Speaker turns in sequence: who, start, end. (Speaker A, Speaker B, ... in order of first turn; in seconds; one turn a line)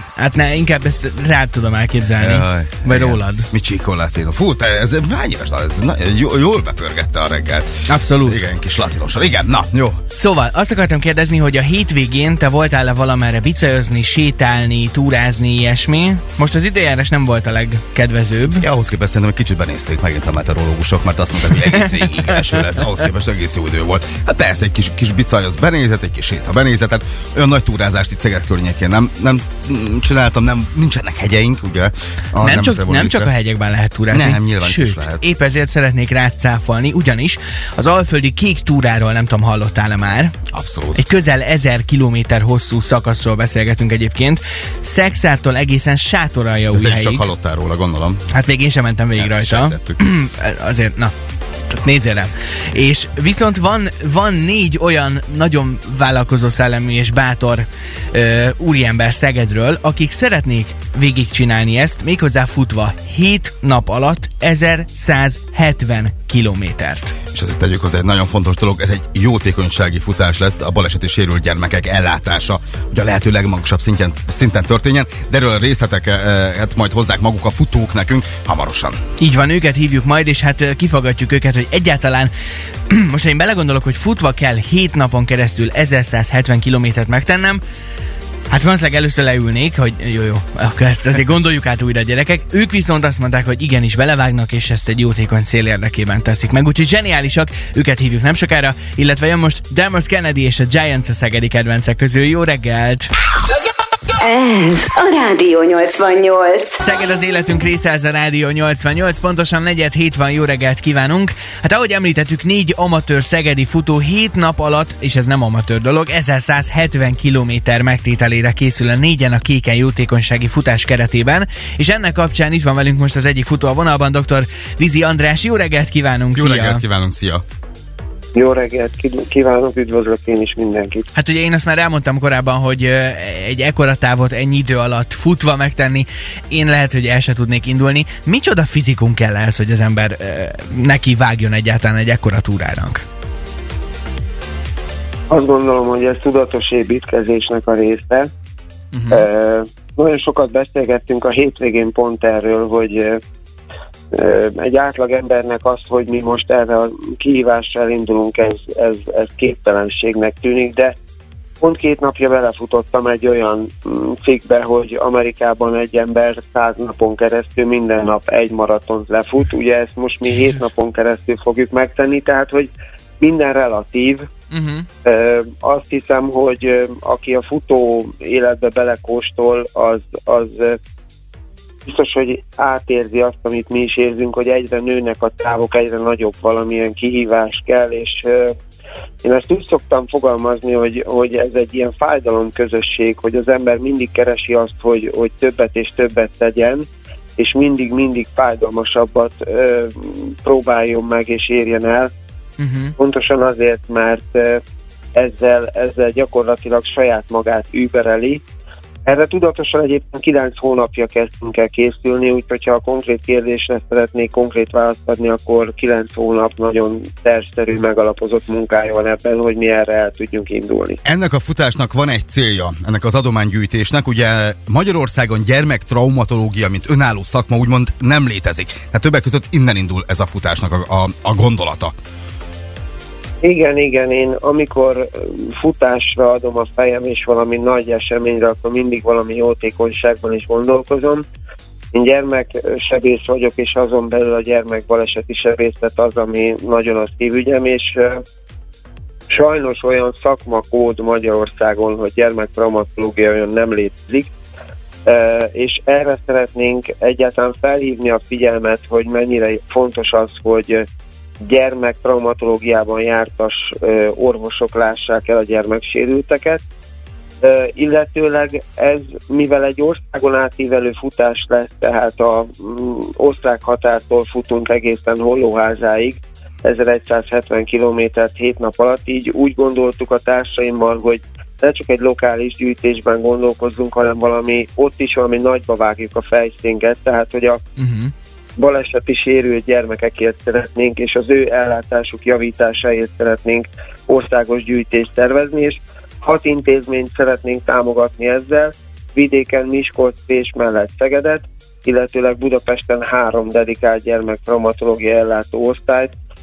Speaker A: 0.2-3.5
Speaker B: 2.2-10.0
Speaker A: 7.9-8.4
Speaker A: 10.2-18.7
Speaker B: 18.6-33.3
Speaker A: 21.6-22.1
Speaker A: 32.4-40.4
Speaker B: 34.1-35.2
Speaker B: 40.5-41.0
Speaker A: 41.0-47.3
Speaker B: 46.7-48.3
Speaker A: 48.3-51.1
Speaker B: 49.2-50.0
Speaker A: 51.7-67.2
Speaker B: 67.3-79.0
Speaker A: 79.2-82.3
Speaker A: 82.9-87.6
Speaker A: 88.5-103.1
Speaker C: 104.2-106.7
Speaker A: 106.8-126.8
Speaker B: 126.3-127.4
Speaker D: 128.3-131.1
Speaker A: 131.2-143.0
Speaker D: 145.3-148.3
Speaker A: 148.9-149.2
Speaker D: 149.1-153.2
Speaker D: 154.1-160.9
Speaker D: 161.6-174.3
Speaker A: 174.5-174.9
Speaker D: 175.1-180.8
Speaker D: 181.9-188.6
Speaker D: 189.2-196.9
Speaker D: 197.4-202.1
Speaker A: 202.6-202.9
Speaker D: 203.0-204.6
Speaker D: 205.2-208.4
Speaker D: 209.1-221.0
Speaker B: 221.1-231.9
Speaker D: 233.4-241.2
Speaker D: 241.9-248.2
Speaker D: 249.3-254.3
Speaker D: 255.1-260.9
Speaker D: 261.4-266.6
Speaker D: 267.4-287.6
Speaker A: 287.8-288.1
Speaker D: 288.6-306.1